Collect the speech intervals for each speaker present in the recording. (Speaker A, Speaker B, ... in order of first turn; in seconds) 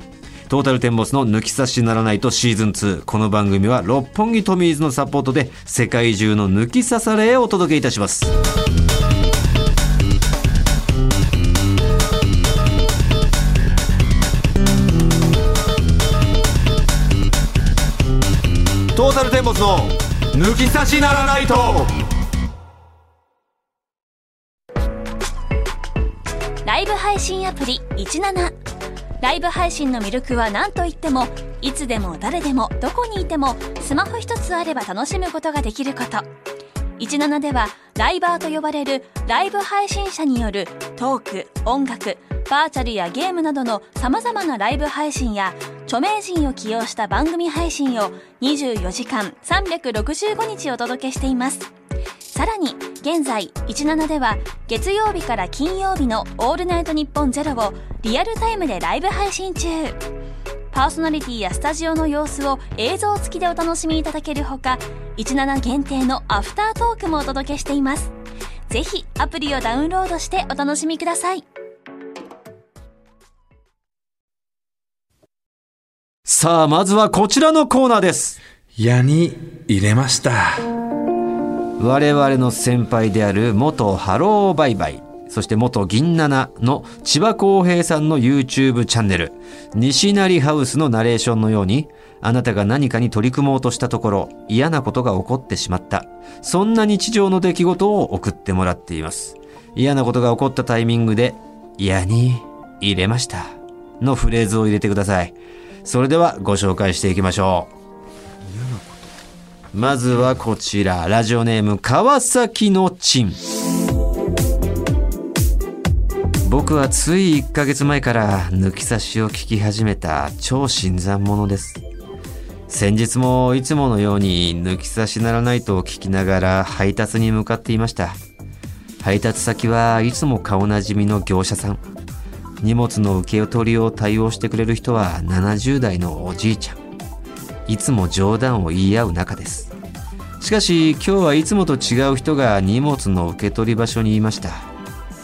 Speaker A: 0.5-8.3, 18.9-22.0, 76.2-78.4, 81.8-107.7, 109.7-113.4, 116.4-121.8, 122.7-128.2, 129.0-131.8, 132.6-136.8, 137.7-139.7, 140.4-144.7
Speaker B: 26.6-28.5, 29.2-36.3, 37.0-51.7, 52.3-60.0, 60.7-68.1, 68.7-71.4
Speaker C: 78.8-80.7, 108.4-109.1